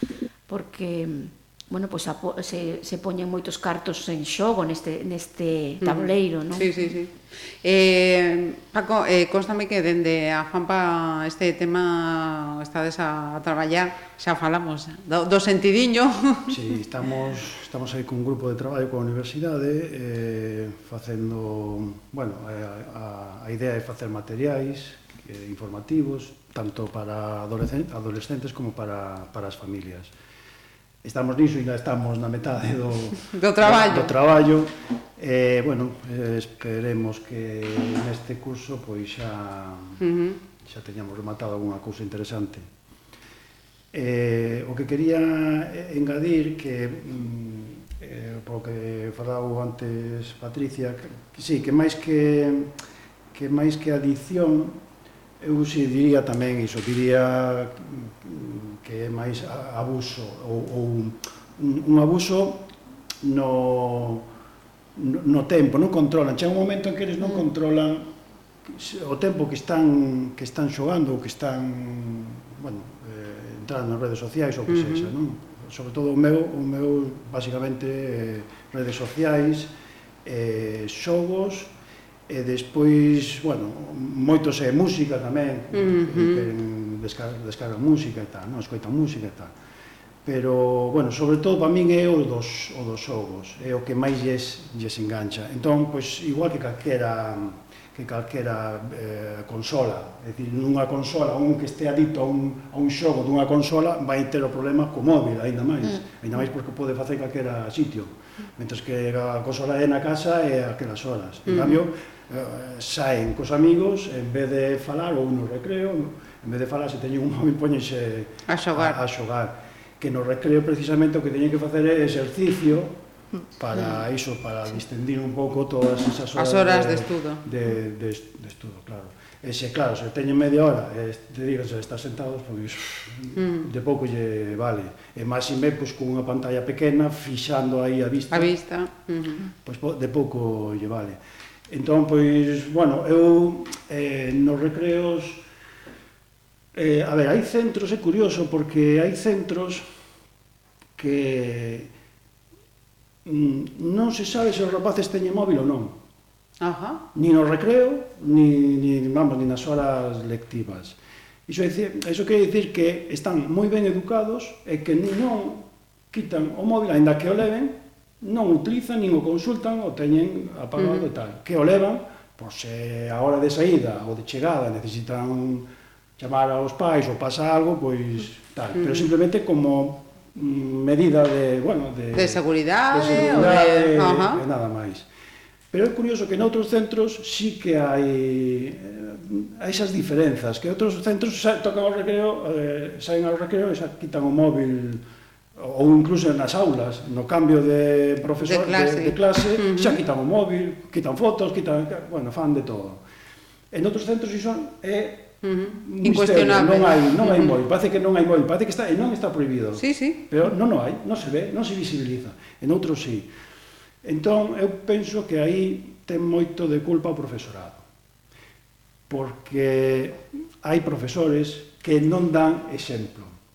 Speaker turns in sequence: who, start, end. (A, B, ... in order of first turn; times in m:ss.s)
0:00.5-0:06.7 A
0:05.8-0:16.6 B
0:16.5-0:30.1 C
0:31.0-0:40.0 C
0:33.3-0:34.1 B
0:40.0-0:40.4 B
0:40.6-0:42.7 C
0:43.9-0:52.7 C
0:53.3-0:54.8 C
0:55.4-1:02.7 C
1:03.2-1:04.2 C
1:05.0-1:08.1 C
1:08.6-1:19.7 C
1:14.7-1:15.1 B
1:20.2-1:21.7 C
1:22.3-1:29.5 C
1:25.7-1:26.4 B
1:30.2-2:03.0 C
1:51.4-1:51.8 B
1:58.5-1:59.0 B
2:03.6-2:18.5 C
2:06.4-2:07.4 B
2:13.4-2:13.7 B
2:18.3-2:19.5 B
2:19.6-2:21.2 C
2:21.7-2:25.4 C
2:26.7-2:29.8 C
2:31.0-2:31.9 C
2:33.2-2:35.9 C
2:36.6-2:37.0 B
2:37.1-2:41.0 C
2:41.5-3:05.1 C
2:50.8-2:51.0 B
2:58.7-2:59.1 B
3:02.1-3:04.4 B
3:05.7-3:15.0 C
3:15.6-3:23.0 C
3:18.4-3:20.0 B
3:23.7-3:33.3 C
3:25.4-3:27.6 B
3:29.8-3:30.2 B
3:34.0-3:37.8 C
3:39.1-3:43.4 C